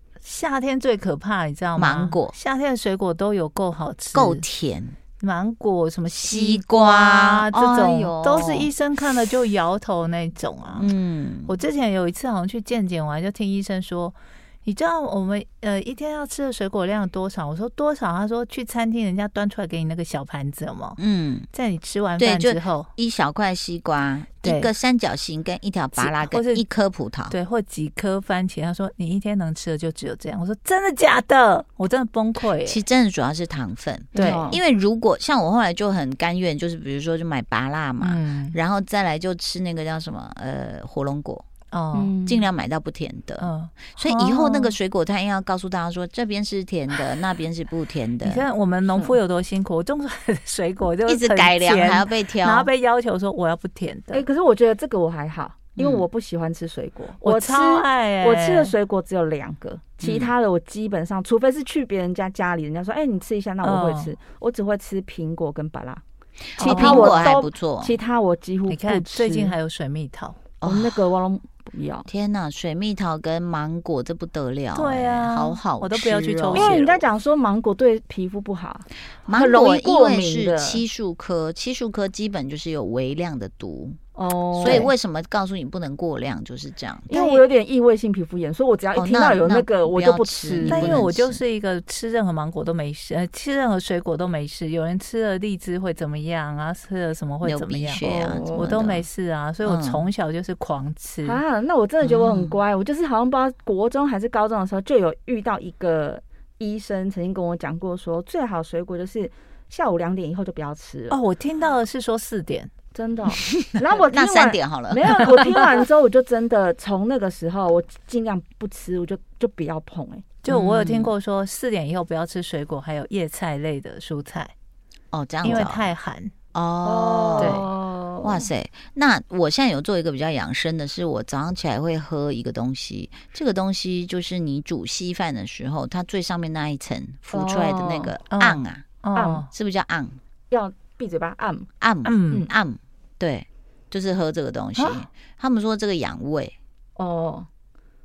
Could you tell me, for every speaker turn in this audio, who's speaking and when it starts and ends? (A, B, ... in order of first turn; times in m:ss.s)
0:00.2-0:04.4 A
0:01.8-0:02.4 B
0:04.1-0:05.0 B
0:05.2-0:10.9 A
0:06.2-0:08.7 B
0:10.8-0:11.6 B
0:11.5-0:21.0 A
0:21.0-0:21.5 B
0:21.5-0:22.9 A
0:22.2-0:27.4 B
0:24.4-0:24.7 A
0:26.0-0:26.6 A
0:27.3-0:32.8 A
0:32.6-0:41.4 B
0:34.1-0:34.5 A
0:34.2-0:34.6 C
0:38.0-0:38.6 A
0:41.7-0:42.1 A
0:41.9-0:42.5 C
0:42.2-0:48.4 B
0:43.4-0:44.8 A
0:48.2-0:54.2 A
0:51.0-0:52.7 B
0:54.1-1:06.0 C
0:55.8-0:56.0 B
0:57.2-0:58.7 A
1:00.0-1:00.3 B
1:03.6-1:04.1 A
1:06.6-1:08.0 B
1:06.6-1:07.4 A
1:06.6-1:09.6 C
1:08.7-1:10.4 A
1:10.6-1:11.0 B
1:10.6-1:12.1 C
1:12.1-1:17.0 B
1:14.7-1:16.8 A
1:16.5-1:20.8 C
1:19.3-1:24.0 B
1:24.2-1:24.9 C
1:24.6-1:27.1 B
1:24.6-1:24.9 A
1:27.1-1:31.0 C
1:27.1-1:27.4 A
1:28.9-1:31.4 B
1:30.6-1:38.0 A
1:37.4-1:39.1 B
1:38.0-1:38.7 C
1:38.5-1:41.4 A
1:39.6-1:40.1 B
1:41.2-1:51.2 C
1:42.0-1:42.6 B
1:51.1-1:52.7 A
1:52.9-2:00.2 C
1:54.1-1:55.5 B
2:00.4-2:04.5 A
2:00.5-2:01.1 B
2:05.1-2:05.9 B
2:05.4-2:06.3 A
2:06.5-2:07.7 B
2:06.8-2:08.5 C
2:07.4-2:07.6 A
2:08.2-2:18.9 B
2:17.3-2:18.1 C
2:18.3-2:19.5 A
2:19.2-2:19.5 C
2:19.5-2:20.2 B
2:20.5-2:21.7 C
2:21.8-2:26.6 B
2:22.0-2:22.5 A
2:24.8-2:25.0 A
2:27.0-2:27.5 C